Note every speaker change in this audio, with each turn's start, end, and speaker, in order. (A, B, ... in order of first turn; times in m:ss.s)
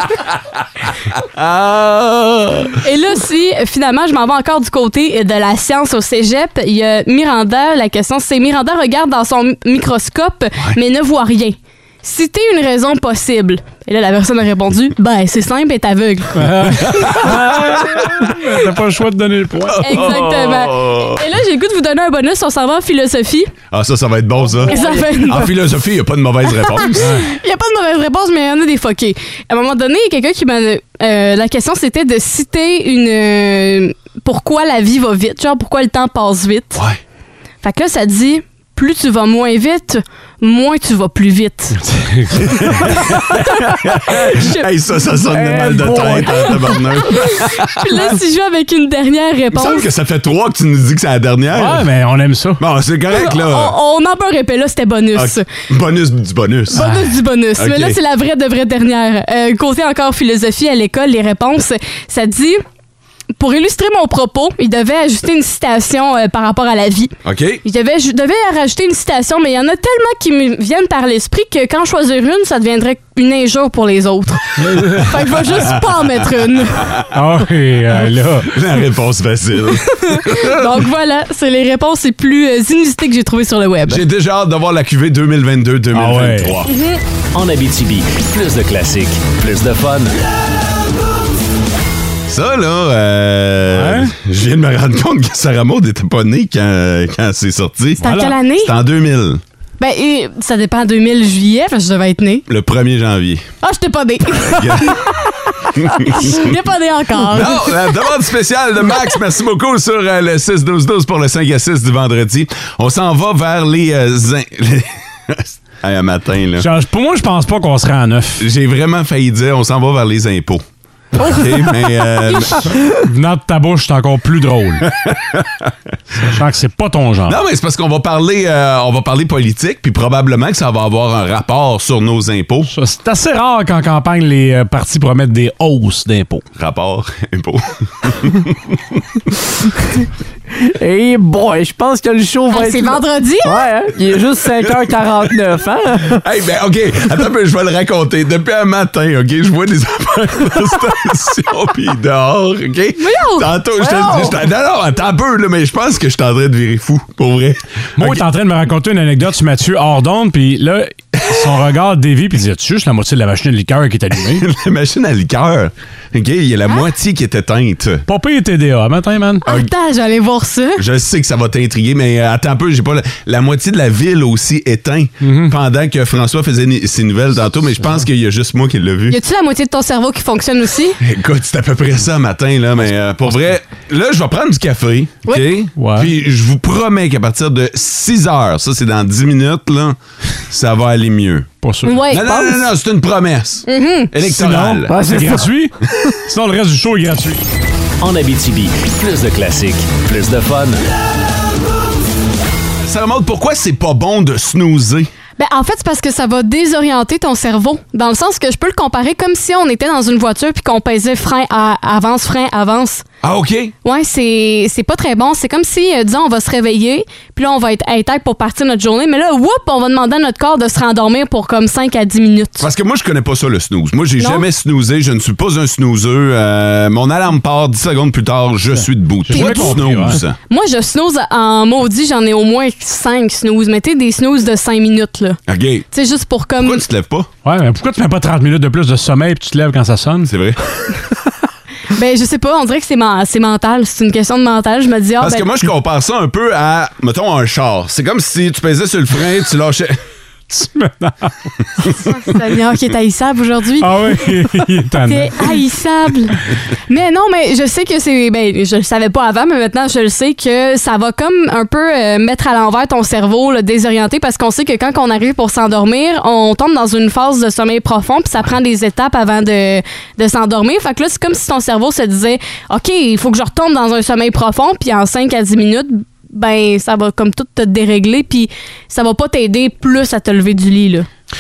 0:01.2-0:02.8 A
0:02.8-0:16.4 B
0:16.4-0:20.0 C
0:16.8-0:18.3 A
0:19.7-0:21.2 A
0:19.8-0:23.5 B
0:23.7-0:27.2 A
0:24.7-0:25.5 B
0:26.6-0:36.8 B
0:27.0-0:27.2 C
0:37.6-0:41.8 B
0:41.9-0:42.8 C
0:42.4-0:48.1 A
0:44.3-0:44.6 B
0:45.3-0:46.5 D
0:47.0-0:49.9 B
0:49.5-0:51.9 A
0:51.5-0:52.6 C
0:52.6-0:53.8 A
0:53.1-0:55.5 B
0:55.1-0:58.0 A
0:56.7-1:02.6 B
1:03.4-1:16.9 B
1:07.2-1:07.6 A
1:14.6-1:15.2 C
1:15.4-1:17.2 A
1:17.1-1:18.5 C
1:18.4-1:20.8 A
1:19.9-1:24.0 B
1:23.9-1:26.7 A
1:25.9-1:26.6 C
1:26.7-1:27.0 B
1:27.3-1:30.1 E
1:32.3-1:39.4 A
1:33.7-1:34.1 C
1:38.0-1:38.7 B
1:38.0-1:38.4 C
1:39.8-1:42.4 B
1:42.5-1:43.5 A
1:43.6-1:48.0 B
1:44.4-1:45.2 A
1:45.8-1:46.5 A
1:47.3-1:56.7 A
1:56.6-1:58.4 C
1:58.4-2:00.6 A
2:01.2-2:02.4 B
2:01.2-2:02.6 A
2:02.8-2:04.9 C
2:04.8-2:05.7 A
2:06.2-2:07.4 C
2:07.3-2:12.7 A
2:12.7-2:16.4 C
2:16.6-2:19.0 A
2:20.5-2:26.2 D
2:22.5-2:23.7 B
2:26.1-2:38.2 A
2:33.0-2:34.3 B
2:38.0-2:44.4 C
2:44.3-2:48.0 A
2:48.1-2:49.4 C
2:49.4-2:50.8 B
2:50.8-2:59.2 A
2:55.2-2:55.6 C
2:59.1-3:01.0 B
3:01.0-3:11.5 A
3:05.3-3:05.5 B
3:05.8-3:06.1 C
3:11.6-3:12.0 C
3:11.8-3:12.6 B
3:12.1-3:15.4 A
3:13.7-3:14.1 B
3:14.2-3:17.4 C
3:14.9-3:15.5 D
3:18.0-3:20.8 E
3:22.8-3:25.1 A
3:25.4-3:33.0 B
3:33.2-3:33.7 A
3:33.8-3:42.7 B
3:42.6-3:50.4 A
3:44.2-3:44.4 B
3:48.8-3:50.2 C
3:49.3-3:49.8 B
3:50.5-3:55.4 B
3:55.5-3:55.8 A
3:55.9-3:56.8 B
3:56.6-3:57.3 A
3:57.4-4:00.3 C
4:00.2-4:00.6 A
4:01.9-4:05.5 B
4:05.2-4:10.0 A
4:10.5-4:11.3 C
4:11.8-4:14.3 B
4:13.8-4:15.6 C
4:15.1-4:41.1 B